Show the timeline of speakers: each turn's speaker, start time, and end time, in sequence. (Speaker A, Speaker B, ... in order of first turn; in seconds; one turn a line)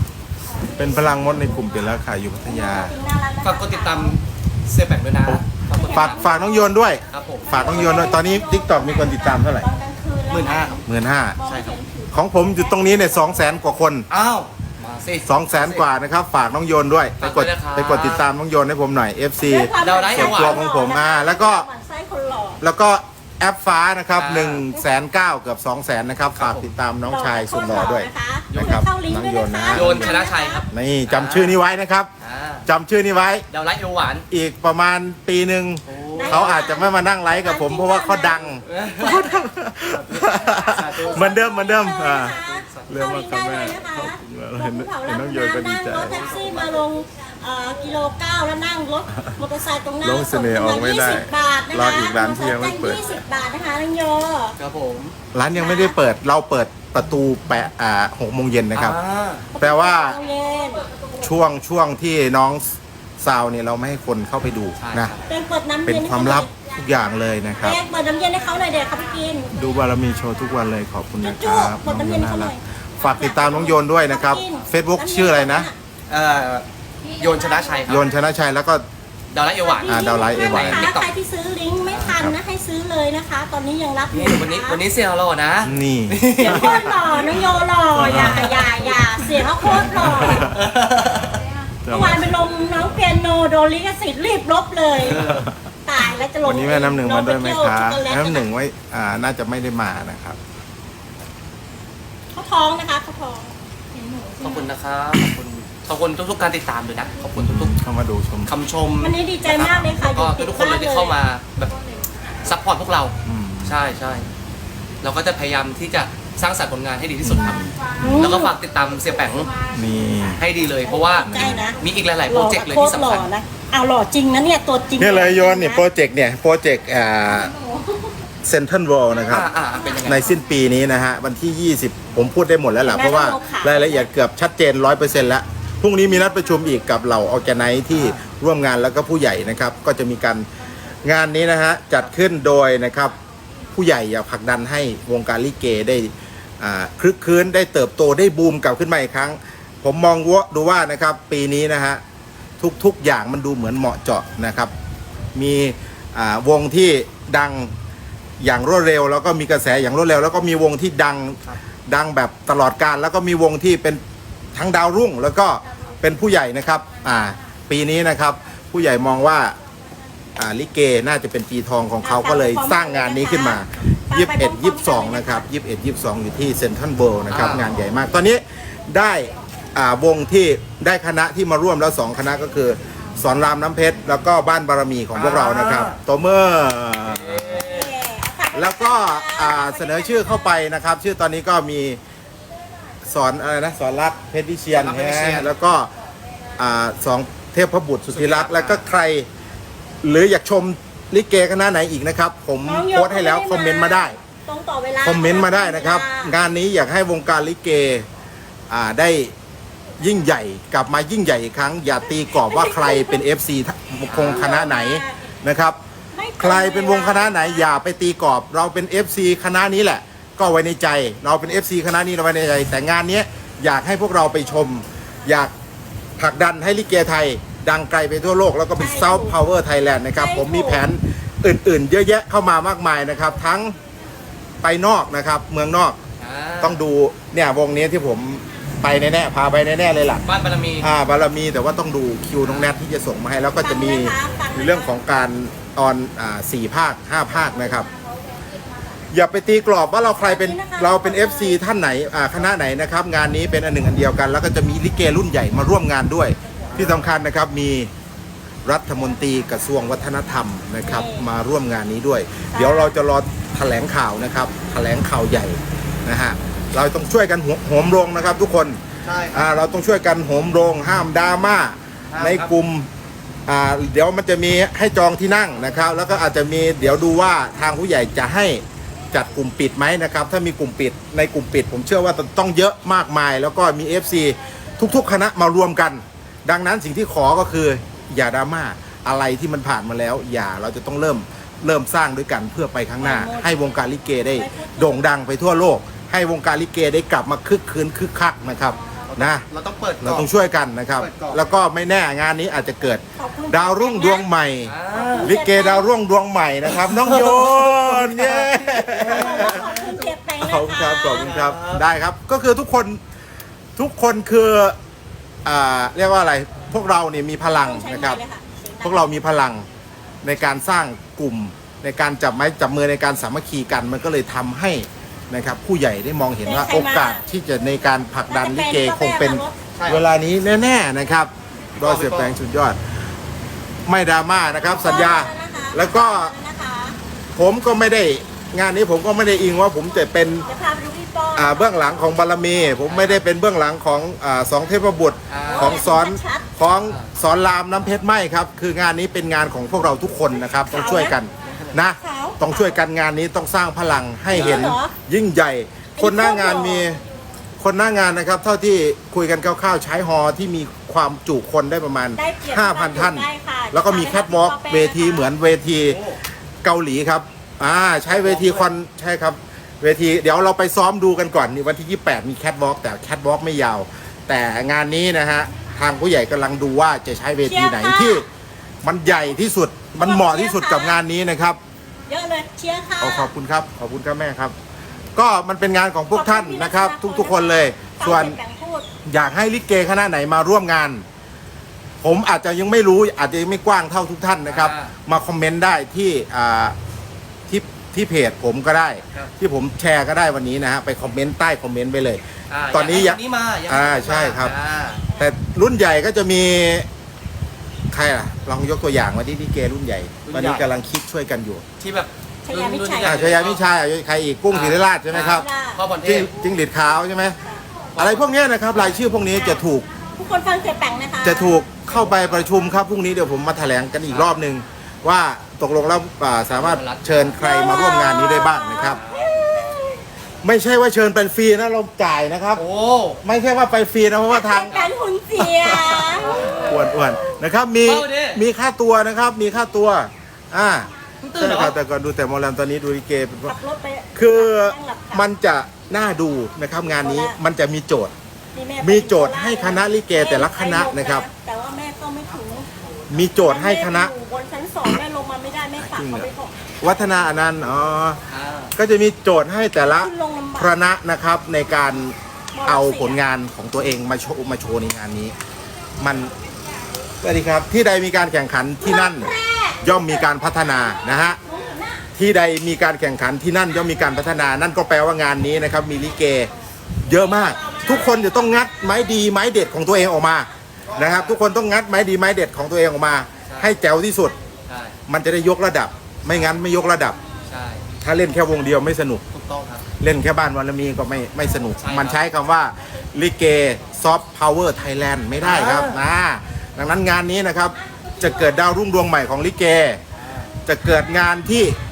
Speaker A: 0.6-2.9
Speaker B: 2.4-4.2
Speaker C: 3.4-6.3
Speaker A: 5.2-9.7
Speaker B: 5.7-6.8
Speaker C: 7.1-8.0
Speaker B: 7.4-13.6
Speaker C: 10.3-10.8
Speaker A: 10.8-11.4
Speaker C: 11.4-11.8
Speaker A: 12.1-14.1
Speaker C: 14.1-15.8
Speaker A: 15.2-21.6
Speaker C: 17.2-18.2
Speaker B: 19.4-22.6
Speaker C: 19.8-20.6
Speaker A: 22.6-30.2
Speaker C: 24.1-24.6
Speaker C: 26.3-26.7
Speaker B: 27.1-30.6
Speaker C: 28.5-28.8
Speaker C: 29.7-31.6
Speaker A: 30.7-32.1
Speaker C: 32.2-32.6
Speaker A: 32.6-33.5
Speaker C: 33.5-34.2
Speaker A: 34.3-46.3
Speaker C: 35.9-36.6
Speaker B: 36.1-38.6
Speaker C: 38.6-39.3
Speaker C: 39.9-41.4
Speaker B: 40.4-54.6
Speaker C: 42.2-43.0
Speaker C: 46.0-46.9
Speaker A: 50.0-53.1
Speaker C: 54.6-55.1
Speaker A: 55.3-59.0
Speaker B: 55.5-56.0
Speaker C: 58.7-59.5
Speaker B: 59.5-60.9
Speaker A: 59.6-60.2
Speaker A: 61.1-65.1
Speaker C: 64.8-65.3
Speaker B: 65.2-66.5
Speaker A: 65.8-67.8
Speaker B: 67.6-69.5
Speaker A: 69.5-75.7
Speaker B: 71.2-75.8
Speaker C: 76.1-76.7
Speaker C: 77.2-78.1
Speaker A: 77.9-78.8
Speaker C: 79.3-81.1
Speaker B: 79.6-84.8
Speaker A: 79.8-80.9
Speaker C: 81.9-82.1
Speaker C: 84.1-87.4
Speaker A: 85.6-87.3
Speaker B: 86.4-90.5
Speaker A: 87.9-90.6
Speaker C: 88.0-89.0
Speaker C: 89.6-91.4
Speaker A: 91.8-92.3
Speaker B: 91.9-95.2
Speaker C: 95.0-95.5
Speaker A: 95.0-95.5
Speaker B: 95.8-98.5
Speaker A: 96.4-100.4
Speaker B: 102.3-103.5
Speaker C: 104.4-107.8
Speaker A: 107.3-108.5
Speaker C: 108.5-111.8
Speaker B: 109.0-111.2
Speaker A: 109.5-109.9
Speaker C: 112.4-114.3
Speaker A: 113.2-113.8
Speaker C: 115.0-119.5
Speaker A: 117.2-118.4
Speaker B: 118.0-118.5
Speaker A: 119.7-120.4
Speaker C: 120.3-123.3
Speaker B: 121.0-125.8
Speaker A: 121.2-121.6
Speaker A: 125.0-127.5
Speaker A: 128.4-129.5
Speaker C: 129.3-130.3
Speaker A: 130.0-140.5
Speaker B: 132.8-134.1
Speaker C: 137.9-138.2
Speaker A: 141.0-143.2
Speaker A: 143.7-152.0
Speaker A: 152.6-154.7
Speaker A: 155.3-157.7
Speaker A: 158.4-164.0
Speaker A: 164.5-169.6
Speaker A: 170.4-187.7
Speaker B: 172.0-175.4
Speaker C: 177.3-177.9
Speaker C: 185.1-186.0
Speaker C: 187.1-188.0
Speaker B: 187.6-190.5
Speaker A: 188.5-192.0
Speaker A: 193.0-195.9
Speaker C: 194.7-195.5
Speaker A: 196.6-199.3
Speaker C: 198.1-198.8
Speaker A: 200.0-204.2
Speaker B: 202.6-206.3
Speaker A: 205.0-208.1
Speaker A: 208.7-209.3
Speaker A: 210.0-215.8
Speaker B: 212.2-213.2
Speaker C: 214.1-214.4
Speaker B: 214.3-215.2
Speaker B: 216.1-217.7
Speaker A: 216.4-225.5
Speaker A: 226.2-233.8
Speaker B: 228.8-229.4
Speaker B: 230.2-230.8
Speaker A: 234.6-236.0
Speaker C: 236.2-236.8
Speaker A: 236.6-240.2
Speaker C: 240.2-240.9
Speaker A: 240.8-247.9
Speaker C: 242.4-242.7
Speaker B: 243.6-245.1
Speaker A: 249.1-257.9
Speaker B: 250.2-251.6
Speaker C: 256.7-257.1
Speaker A: 258.6-268.8
Speaker B: 260.8-261.3
Speaker B: 262.5-262.9
Speaker C: 269.0-269.5
Speaker A: 269.3-272.9
Speaker C: 272.1-272.5
Speaker A: 273.5-299.4
Speaker B: 293.0-293.6
Speaker B: 294.3-295.1
Speaker C: 299.1-300.3
Speaker A: 300.0-309.8
Speaker C: 301.0-301.4
Speaker B: 303.1-304.3
Speaker C: 304.6-305.4
Speaker B: 304.9-305.9
Speaker C: 306.7-310.1
Speaker B: 309.1-311.3
Speaker A: 310.4-313.0
Speaker C: 311.1-311.8
Speaker A: 313.8-314.8
Speaker A: 315.4-318.2
Speaker B: 317.5-319.1
Speaker A: 318.8-319.6
Speaker A: 320.2-332.8
Speaker B: 326.4-327.2
Speaker B: 328.3-329.5
Speaker C: 329.7-330.0
Speaker C: 331.8-332.4
Speaker A: 333.9-336.3
Speaker C: 334.6-334.9
Speaker B: 334.7-337.0
Speaker A: 337.3-340.5
Speaker B: 340.4-341.9
Speaker A: 341.3-357.0
Speaker C: 342.9-343.2
Speaker C: 345.3-345.9
Speaker B: 345.4-346.6
Speaker C: 346.8-347.1
Speaker B: 350.7-351.1
Speaker C: 351.4-351.7
Speaker B: 352.0-352.8
Speaker C: 354.3-354.7
Speaker B: 354.4-354.9
Speaker B: 356.0-356.9
Speaker A: 357.6-366.0
Speaker B: 362.1-365.3
Speaker C: 365.8-366.2
Speaker A: 366.6-378.2
Speaker C: 368.1-368.7
Speaker B: 377.4-378.2
Speaker A: 378.8-381.6
Speaker B: 380.0-381.0
Speaker B: 382.1-383.3
Speaker A: 383.0-384.5
Speaker A: 385.1-388.4
Speaker B: 386.1-388.9
Speaker A: 389.0-391.0
Speaker A: 392.0-396.7
Speaker C: 394.4-394.9
Speaker A: 397.5-404.5
Speaker C: 402.5-405.0
Speaker A: 405.2-406.9
Speaker A: 407.9-411.6
Speaker C: 410.2-410.7
Speaker C: 411.8-413.6
Speaker B: 412.4-413.2
Speaker A: 413.0-415.5
Speaker C: 414.5-416.3
Speaker B: 415.3-415.8
Speaker A: 416.0-417.4
Speaker B: 416.4-416.8
Speaker C: 417.9-419.0
Speaker A: 418.0-419.9
Speaker B: 419.2-419.6
Speaker B: 420.2-421.6
Speaker A: 421.2-429.0
Speaker C: 421.9-422.5
Speaker C: 424.0-424.4
Speaker C: 426.5-427.4
Speaker B: 427.3-430.0
Speaker C: 428.8-429.4
Speaker A: 430.4-432.6
Speaker C: 432.5-433.2
Speaker A: 433.2-434.8
Speaker B: 434.3-437.1
Speaker A: 435.4-443.6
Speaker C: 436.1-436.8
Speaker C: 437.8-438.4
Speaker C: 441.2-441.8
Speaker B: 443.5-445.3
Speaker A: 444.1-448.1
Speaker B: 447.0-447.4
Speaker B: 448.5-452.7
Speaker A: 448.8-451.3
Speaker A: 453.1-454.1
Speaker B: 453.4-456.6
Speaker A: 455.8-456.3
Speaker A: 456.8-458.2
Speaker C: 458.3-458.7
Speaker A: 458.7-465.3
Speaker B: 459.8-460.7
Speaker B: 462.5-463.2
Speaker A: 466.0-466.3
Speaker A: 467.2-471.4
Speaker B: 468.8-472.1
Speaker A: 472.1-476.5
Speaker A: 477.0-484.4
Speaker B: 477.1-479.2
Speaker C: 480.9-481.4
Speaker C: 483.4-483.8
Speaker C: 484.7-484.9
Speaker A: 485.1-487.2
Speaker B: 486.6-487.2
Speaker C: 487.4-487.9
Speaker A: 488.0-489.2
Speaker C: 489.3-489.8
Speaker A: 490.0-500.0
Speaker C: 491.8-492.2
Speaker C: 495.4-496.0
Speaker C: 500.1-500.5
Speaker A: 500.6-501.8